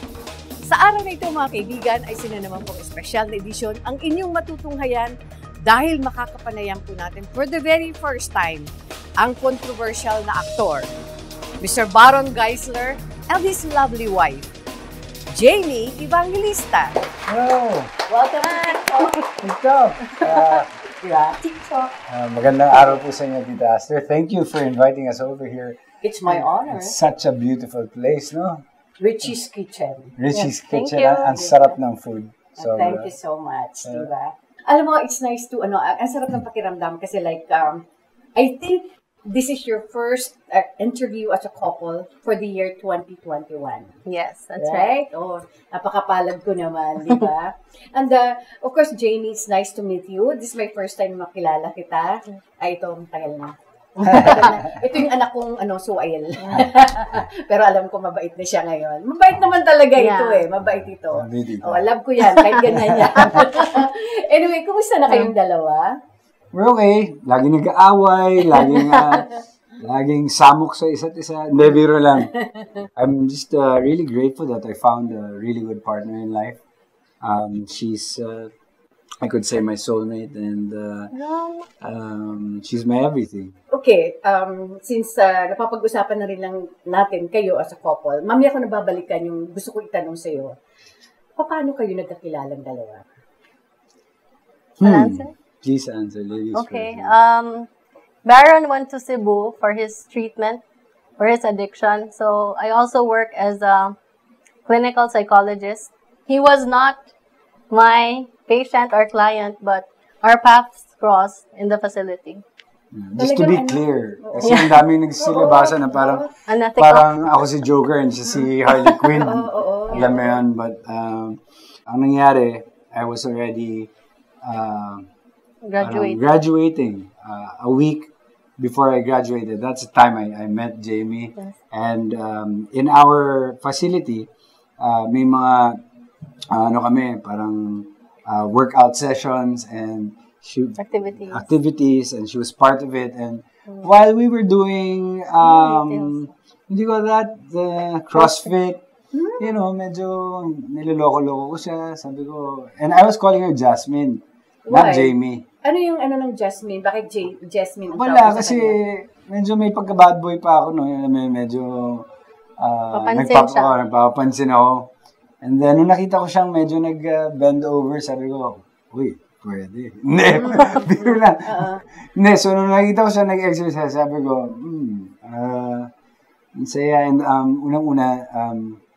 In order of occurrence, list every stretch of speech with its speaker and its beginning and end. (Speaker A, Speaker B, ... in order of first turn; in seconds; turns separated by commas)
Speaker A: 0.7-10.9, Speaker A: 11.6-14.5, Speaker A: 15.3-17.1, Speaker B: 17.3-17.9, Speaker A: 18.1-19.3, Speaker C: 18.6-19.3, Speaker B: 19.4-20.7, Speaker A: 21.0-21.9, Speaker B: 22.1-28.6, Speaker A: 22.7-23.0, Speaker A: 26.0-27.0, Speaker A: 29.0-30.1, Speaker B: 30.2-33.1, Speaker C: 30.3-31.4, Speaker A: 31.3-31.7, Speaker A: 32.6-37.9, Speaker B: 33.8-34.1, Speaker A: 38.4-44.0, Speaker C: 44.1-44.9, Speaker A: 44.6-66.0, Speaker C: 54.0-54.4, Speaker B: 54.0-54.7, Speaker B: 56.5-57.2, Speaker C: 60.0-60.4, Speaker B: 60.6-61.9, Speaker C: 62.3-62.6, Speaker B: 62.6-63.4, Speaker C: 63.2-63.6, Speaker B: 66.5-72.3, Speaker B: 73.0-76.6, Speaker B: 77.2-78.5, Speaker B: 79.2-81.1, Speaker C: 81.1-81.7, Speaker B: 81.8-83.6, Speaker A: 83.7-90.6, Speaker A: 91.4-93.1, Speaker B: 94.8-97.2, Speaker C: 94.8-95.3, Speaker C: 96.5-97.7, Speaker C: 98.2-100.6, Speaker C: 101.2-104.0, Speaker C: 104.7-107.0, Speaker C: 107.7-112.4, Speaker B: 112.9-123.9, Speaker A: 113.2-116.3, Speaker C: 114.4-114.7, Speaker C: 116.5-117.1, Speaker A: 119.1-120.4, Speaker B: 124.4-125.1, Speaker C: 125.7-126.2, Speaker B: 125.8-135.8, Speaker B: 136.5-148.8, Speaker C: 140.8-141.5, Speaker C: 145.4-146.2, Speaker A: 149.1-149.5, Speaker B: 149.4-155.4, Speaker A: 154.7-158.8, Speaker B: 157.9-162.1, Speaker B: 162.6-175.9, Speaker C: 162.9-163.7, Speaker A: 170.4-170.9, Speaker A: 171.5-171.8, Speaker B: 176.5-178.8